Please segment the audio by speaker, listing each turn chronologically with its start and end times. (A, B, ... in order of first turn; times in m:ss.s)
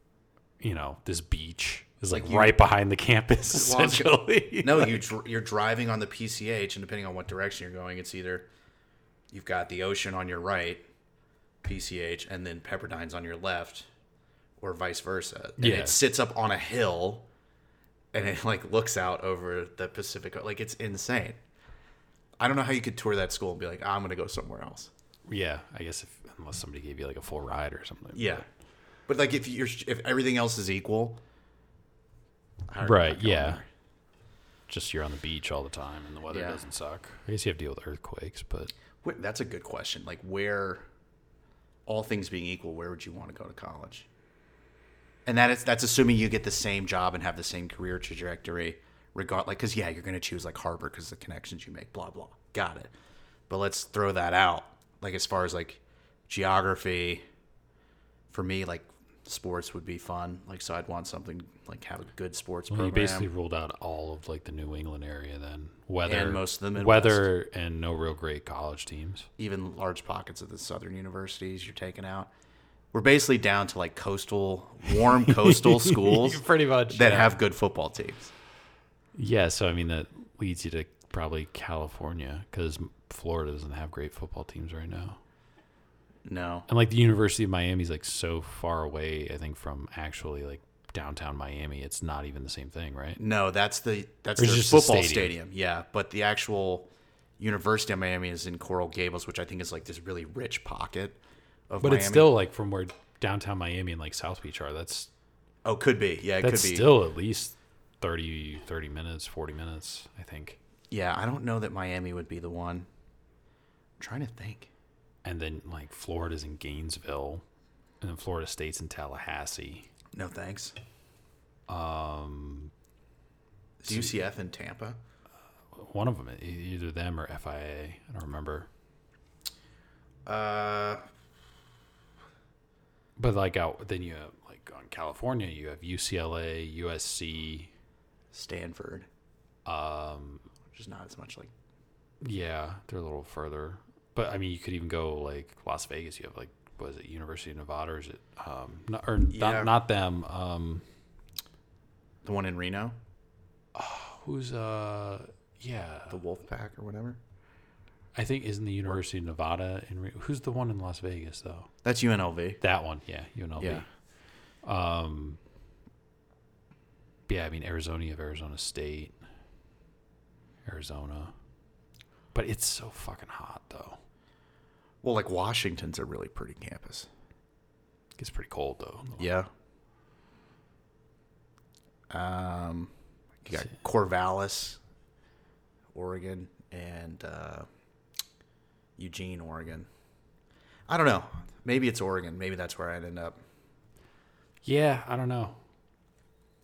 0:00.6-0:05.1 A
0:02.1-0:02.6 B
0:03.5-0:08.5 B
0:09.3-0:10.8 B
0:11.6-0:13.9 B
0:14.6-0:17.3 B
0:15.6-0:16.0 A
0:18.1-0:21.4 B
0:22.4-0:24.9 B
0:25.3-0:28.4 A
0:28.1-0:28.4 B
0:29.1-0:31.2 B
0:32.7-0:33.6 B
0:32.8-0:33.6 A
0:34.7-0:38.7 A
0:36.3-0:36.6 B
0:39.0-0:40.8 B
0:41.8-0:44.1 B
0:45.2-0:52.9 B
0:53.5-0:57.2 B
0:58.3-1:03.3 B
1:02.7-1:09.3 A
1:06.0-1:07.3 B
1:09.4-1:12.3 B
1:12.9-1:18.3 B
1:15.0-1:17.4 A
1:19.1-1:25.2 A
1:26.2-1:26.7 B
1:26.7-1:33.2 A
1:33.2-1:42.3 B
1:34.4-1:35.3 A
1:41.8-1:45.1 A
1:45.6-1:46.9 B
1:46.4-1:50.6 A
1:50.9-1:52.9 B
1:54.0-1:54.7 B
1:55.2-1:57.4 A
1:58.0-1:59.9 A
2:00.1-2:00.8 B
2:01.7-2:02.7 A
2:03.8-2:05.0 B
2:03.9-2:04.1 A
2:05.7-2:08.7 A
2:10.2-2:11.0 B
2:13.2-2:17.7 A
2:18.3-2:19.1 B
2:19.6-2:20.5 A
2:20.7-2:21.5 B
2:22.2-2:30.8 A
2:29.3-2:29.7 B
2:32.2-2:33.0 B
2:33.7-2:36.2 A
2:36.1-2:37.2 B
2:38.1-2:41.7 A
2:41.8-2:42.6 B
2:42.6-2:43.9 A
2:43.6-2:43.8 B
2:44.6-2:45.4 A
2:47.3-2:49.2 A
2:50.6-2:51.3 A
2:52.3-2:54.0 A
2:55.0-2:57.1 B
2:58.2-2:59.3 A
2:59.2-2:59.5 B
3:02.1-3:02.9 B
3:03.4-3:04.8 B
3:05.9-3:07.7 B
3:09.0-3:09.9 B
3:10.9-3:13.4 B
3:14.6-3:15.6 A